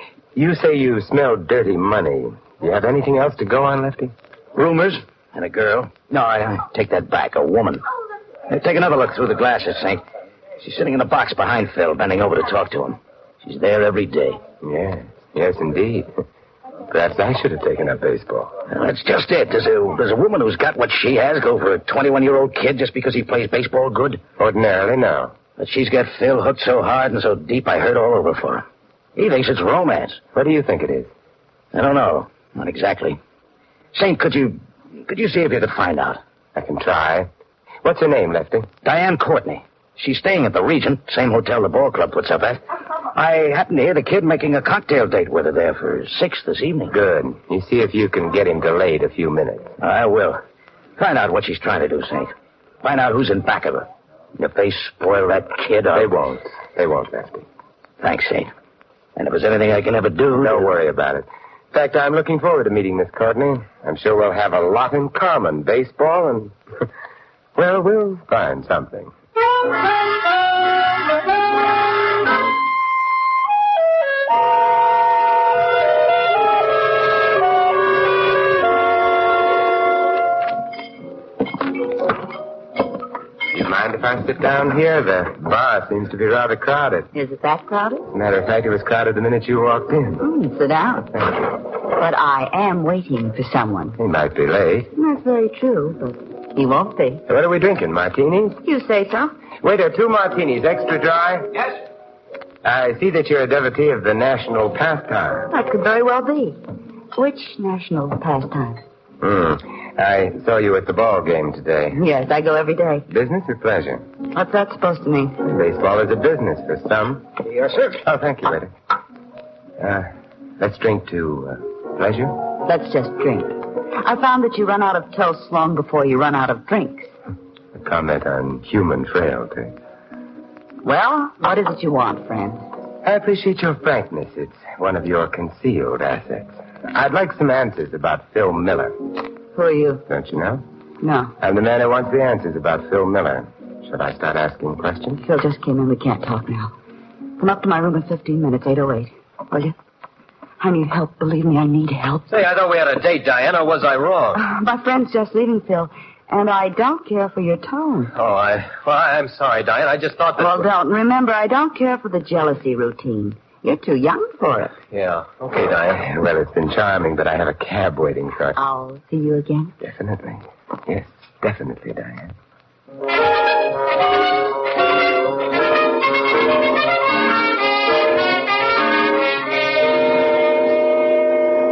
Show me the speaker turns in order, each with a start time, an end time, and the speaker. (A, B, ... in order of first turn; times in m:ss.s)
0:00.4-0:04.1 A
0:04.6-0:07.8 B
0:08.5-0:10.0 B
0:10.6-0:14.4 B
0:14.6-0:16.1 A
0:16.9-0:18.6 A
0:18.7-0:24.2 B
0:24.4-0:25.4 A
0:25.6-0:28.6 B
0:29.2-0:30.2 B
0:30.4-0:31.1 A
0:31.7-0:33.2 B
0:33.9-0:36.2 B
0:36.6-0:37.3 A
0:37.8-0:38.7 A
0:38.8-0:42.6 B
0:43.1-0:47.0 B
0:46.9-0:49.7 A
0:49.8-0:50.4 B
0:51.0-0:52.3 B
0:52.8-0:56.1 B
0:55.9-0:57.5 A
0:58.0-0:58.5 B
0:59.2-1:00.7 B
1:00.4-1:06.5 A
1:07.6-1:09.1 A
1:23.5-1:27.1 A
1:27.1-1:28.1 C
1:28.1-1:30.2 A
1:30.2-1:31.1 C
1:31.1-1:31.5 A
1:32.0-1:34.0 C
1:34.0-1:34.9 A
1:35.0-1:37.2 C
1:37.3-1:38.6 A
1:38.6-1:39.3 C
1:39.6-1:41.5 A
1:42.6-1:45.5 A
1:45.5-1:46.6 C
1:47.2-1:48.8 C
1:49.2-1:52.0 A
1:51.9-1:53.1 C
1:53.1-1:54.0 A
1:54.3-1:55.4 C
1:55.4-1:57.3 A
1:57.5-1:57.8 B
1:58.0-1:58.7 A
1:59.8-2:02.4 A
2:02.6-2:07.1 C
2:07.8-2:09.7 A
2:10.8-2:12.6 C
2:13.0-2:18.9 A
2:19.6-2:20.0 C
2:20.1-2:20.6 A
2:21.0-2:21.3 C
2:21.4-2:25.2 A
2:25.2-2:26.7 C
2:27.4-2:29.7 C
2:30.6-2:32.3 C
2:32.3-2:34.4 D
2:34.4-2:38.1 C
2:38.1-2:40.7 D
2:40.4-2:44.7 C
2:44.9-2:46.1 D
2:46.0-2:48.6 A
2:48.6-2:49.7 C
2:49.8-2:52.3 A